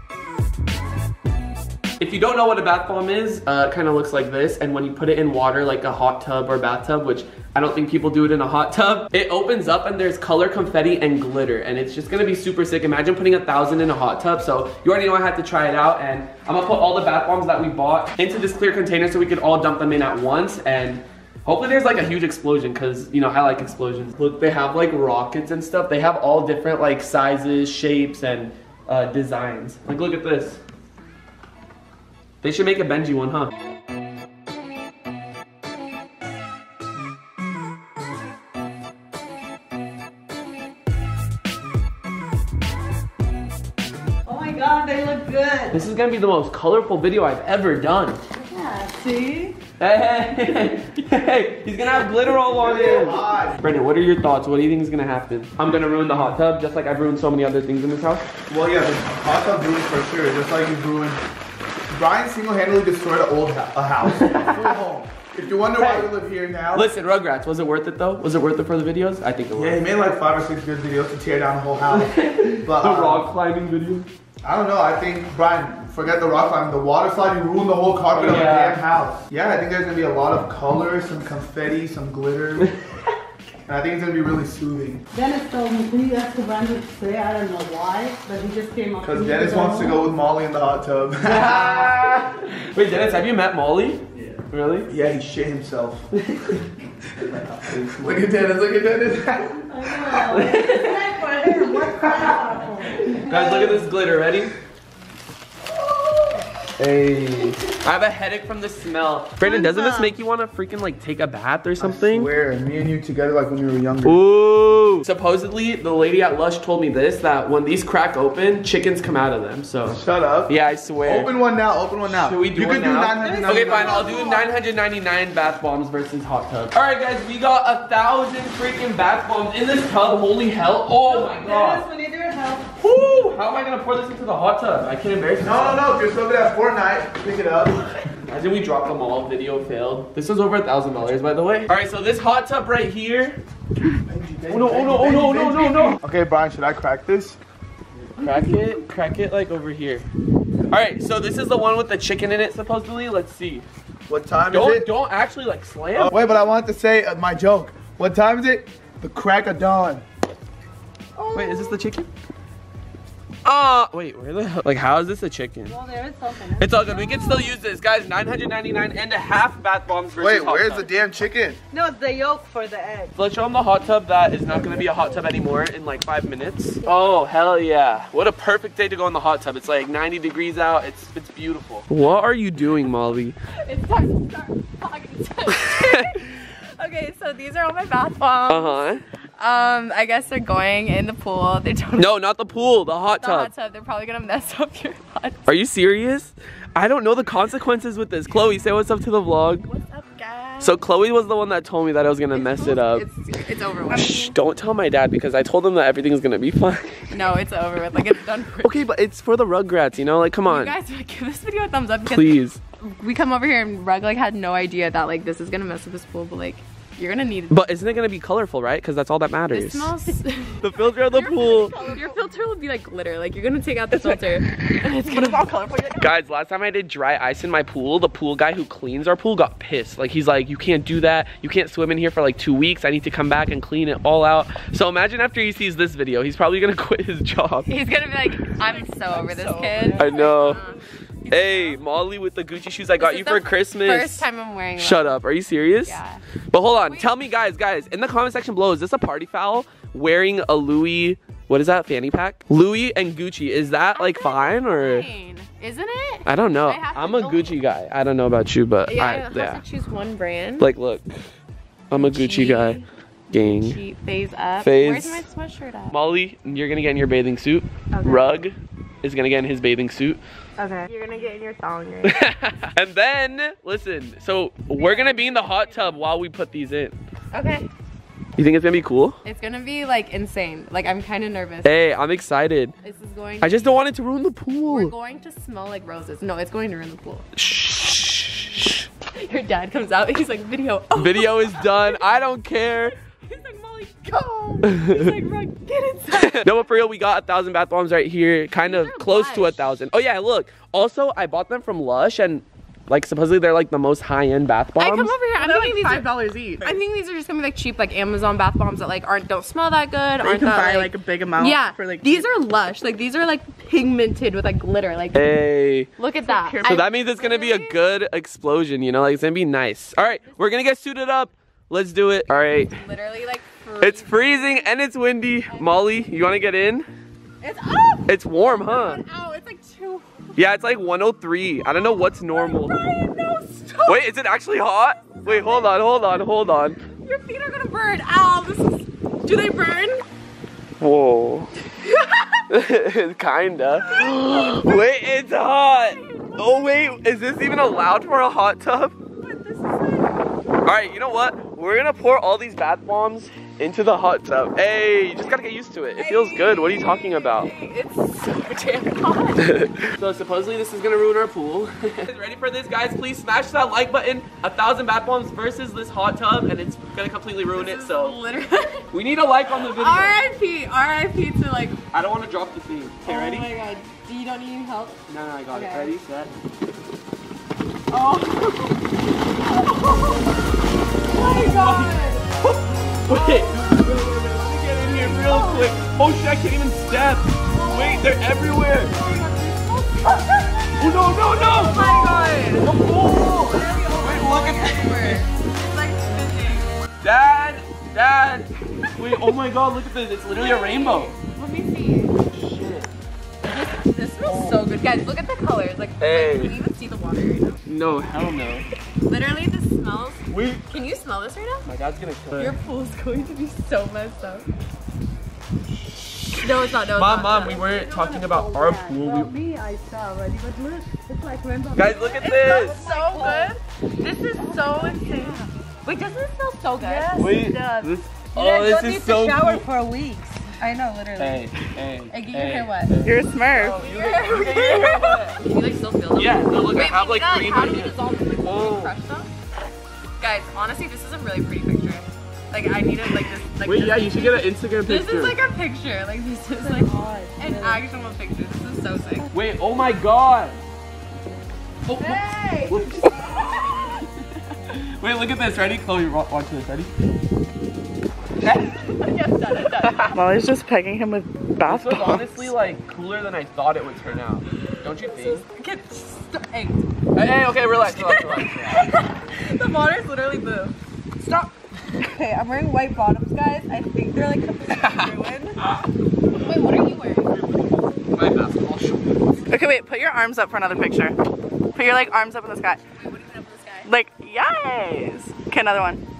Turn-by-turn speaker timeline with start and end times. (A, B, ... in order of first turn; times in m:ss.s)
0:02.0-0:30.6 A
0:32.4-0:33.5 A
0:44.2-0:45.8 B
0:45.7-0:48.2 A
0:48.4-0:49.6 B
0:49.8-0:58.2 A
0:52.5-0:53.6 C
0:58.5-1:01.2 C
1:01.9-1:06.9 C
1:04.2-1:04.7 A
1:05.8-1:06.1 A
1:06.7-1:09.8 A
1:09.5-1:13.3 C
1:11.9-1:14.1 A
1:14.4-1:22.7 C
1:18.1-1:18.8 A
1:23.6-1:25.0 C
1:25.1-1:30.0 B
1:29.0-1:31.9 C
1:31.2-1:34.9 A
1:34.9-1:36.1 C
1:36.2-1:36.6 A
1:37.2-1:40.3 C
1:37.6-1:38.3 A
1:39.6-1:43.7 B
1:40.3-1:41.0 A
1:43.2-1:43.7 C
1:43.2-1:44.5 A
1:46.8-1:52.3 A
1:49.5-1:50.1 B
1:51.8-1:54.2 C
1:54.0-2:01.3 A
1:59.9-2:04.3 C
2:02.1-2:11.8 A
2:03.2-2:04.5 B
2:11.0-2:12.7 B
2:12.8-2:15.8 A
2:15.4-2:18.1 C
2:18.2-2:23.4 A
2:24.0-2:27.4 C
2:24.5-2:26.0 A
2:28.2-2:30.0 A
2:30.7-2:33.6 A
2:34.1-2:34.9 C
2:34.5-2:36.1 A
2:35.9-2:40.0 C
2:41.2-2:41.8 B
2:41.3-2:42.1 A
2:43.4-2:45.8 A
2:45.6-2:47.6 B
2:46.6-2:50.9 A
2:50.2-2:51.6 C
2:51.7-2:53.1 B
2:53.2-3:03.3 A
2:54.5-2:55.2 B
3:03.6-3:12.1 D
3:05.6-3:05.9 A
3:08.5-3:09.0 A
3:12.0-3:13.5 A
3:13.2-3:15.5 D
3:15.5-3:19.7 A
3:19.6-3:20.7 D
3:20.6-3:23.0 A
3:22.3-3:24.3 D
3:23.9-3:27.2 A
3:27.1-3:28.8 D
3:28.6-3:30.7 A
3:30.4-3:37.7 D
3:32.0-3:32.6 A
3:37.5-3:39.9 A
3:39.5-3:45.5 D
3:40.6-3:41.8 A
3:43.9-3:44.2 E
3:45.0-3:46.1 E
3:46.0-3:57.7 A
3:57.7-4:01.8 D
3:58.8-4:00.1 B
3:59.9-4:00.6 A
4:01.3-4:04.2 A
4:03.0-4:05.2 D
4:04.8-4:06.0 A
4:05.8-4:06.2 D
4:06.5-4:15.1 A
4:06.8-4:07.1 D
4:13.9-4:17.6 D
4:16.2-4:19.6 A
4:18.9-4:20.7 D
4:20.6-4:21.2 A
4:21.9-4:23.8 A
4:21.9-4:22.9 D
4:23.4-4:26.0 D
4:24.6-4:25.2 A
4:25.9-4:30.2 A
4:27.9-4:28.2 D
4:30.6-4:32.3 D
4:32.0-4:37.0 A
4:34.7-4:36.0 D
4:37.3-4:37.7 D
4:38.4-4:39.2 A
4:39.2-4:41.8 D
4:41.6-4:42.7 A
4:42.8-4:43.8 D
4:43.4-4:44.9 A
4:44.6-4:47.3 D
4:47.4-4:48.8 A
4:49.1-4:56.8 D
4:50.9-4:52.9 A
4:54.6-4:55.1 A
4:56.1-5:05.2 A
4:58.6-4:59.8 D
5:04.8-5:15.3 D
5:05.4-5:06.7 E
5:10.2-5:12.3 E
5:15.1-5:15.9 A
5:16.0-5:17.8 D
5:16.2-5:16.7 E
5:16.6-5:22.8 A
5:20.2-5:20.6 D
5:22.6-5:24.8 D
5:23.8-5:26.9 A
5:27.4-5:30.3 D
5:28.1-5:29.0 A
5:30.4-5:32.8 A
5:31.7-5:34.1 D
5:33.8-5:36.8 A
5:35.2-5:36.0 D
5:37.0-5:40.0 D
5:40.8-5:41.6 A
5:41.8-5:42.4 D
5:42.5-5:48.9 A
5:45.8-5:46.5 D
5:49.2-5:50.2 D
5:50.6-5:57.5 A
5:55.9-5:59.8 D
5:59.4-6:08.2 A
6:07.5-6:08.9 D
6:08.9-6:10.2 A
6:09.5-6:11.8 D
6:11.9-6:13.5 A
6:13.0-6:15.9 D
6:15.1-6:16.3 A
6:17.9-6:18.8 D
6:19.4-6:20.3 D
6:21.1-6:22.3 D
6:21.1-6:28.9 A
6:23.0-6:23.9 D
6:24.8-6:25.7 D
6:28.9-6:30.2 B
6:30.8-6:35.2 A
6:31.3-6:36.7 D
6:32.1-6:34.2 B
6:37.0-6:41.1 A
6:40.3-6:42.2 D
6:42.3-6:42.9 A
6:43.4-6:47.6 D
6:44.2-6:44.6 A
6:46.0-6:46.6 A
6:47.6-6:48.6 A
6:49.0-6:51.6 D
6:50.3-6:50.6 A
6:51.6-6:52.6 A
6:52.4-6:54.5 D
6:56.4-6:57.8 D
6:57.0-6:59.3 A
6:57.7-7:03.6 B
7:01.7-7:02.8 A
7:02.0-7:07.9 D
7:04.4-7:05.4 B
7:06.8-7:07.7 B
7:07.2-7:09.6 A
7:08.4-7:10.5 B
7:10.6-7:11.5 D
7:11.2-7:15.4 A
7:12.1-7:12.9 D
7:13.0-7:13.8 E
7:13.8-7:19.3 D
7:16.2-7:18.9 A
7:20.2-7:29.3 D
7:23.6-7:25.4 A
7:26.6-7:27.8 B
7:29.3-7:30.6 A
7:31.9-7:34.1 A
7:32.0-7:32.9 B
7:34.6-7:36.9 A
7:38.7-7:40.2 D
7:39.8-7:40.2 A
7:40.1-7:42.5 E
7:41.6-7:45.4 A
7:44.7-7:46.9 D
7:47.1-7:48.8 A
7:47.8-7:55.6 D
7:54.7-7:55.1 A
7:56.3-7:57.3 D
7:58.1-7:59.4 A
7:59.5-8:01.1 E
8:01.7-8:02.8 E
8:02.9-8:03.9 D
8:03.8-8:06.0 E